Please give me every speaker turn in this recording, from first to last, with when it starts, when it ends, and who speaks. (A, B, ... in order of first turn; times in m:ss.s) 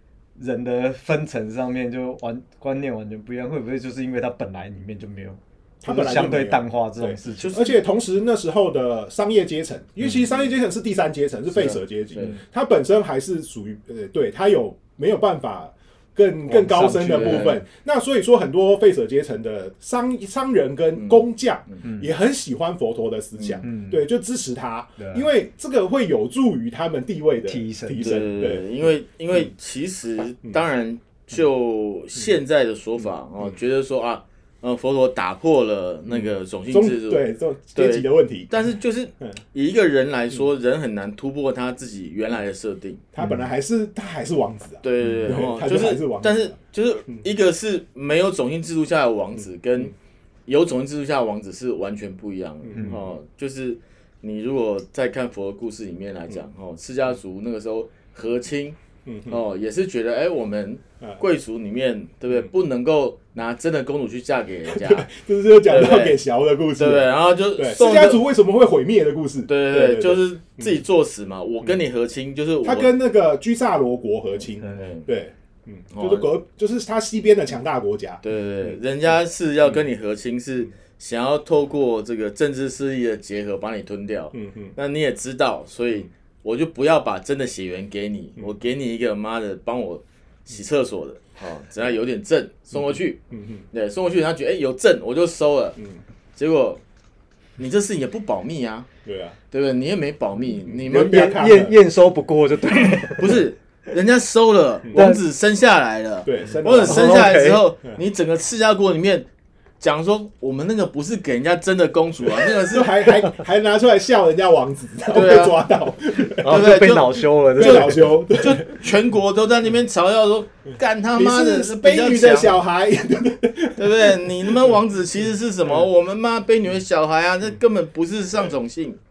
0:00.4-0:07.6 A
0:05.8-0:28.7 B
0:07.4-0:07.8 C
0:16.5-0:17.6 A
0:17.1-0:17.6 C
0:21.0-0:21.8 C
0:23.4-0:23.6 C
0:23.6-0:24.0 A
0:25.0-0:25.2 A
0:27.4-0:28.2 A
0:28.0-0:43.0 C
0:36.7-0:38.5 B
0:43.1-0:46.6 B
0:44.8-0:49.9 C
0:50.5-1:05.1 C
0:52.7-0:53.0 B
0:59.1-0:59.4 B
1:04.7-1:10.8 B
1:05.7-1:06.2 C
1:06.8-1:08.2 C
1:09.5-1:12.9 C
1:12.6-1:18.2 B
1:14.6-1:15.0 C
1:15.9-1:16.3 C
1:18.2-1:33.2 C
1:24.3-1:24.7 B
1:33.3-1:33.6 B
1:33.7-1:35.8 C
1:36.4-1:36.8 C
1:37.6-1:38.9 C
1:39.0-1:39.4 B
1:39.5-1:41.3 C
1:40.7-1:41.8 B
1:40.9-1:43.3 A
1:43.2-1:49.3 C
1:45.0-1:45.2 A
1:46.2-1:47.4 B
1:46.8-1:47.6 A
1:49.8-1:53.3 C
1:52.4-1:56.7 B
1:55.1-1:55.6 C
1:56.4-1:58.2 A
1:56.4-2:02.6 C
1:57.6-1:58.8 B
2:01.1-2:04.5 B
2:03.8-2:09.0 C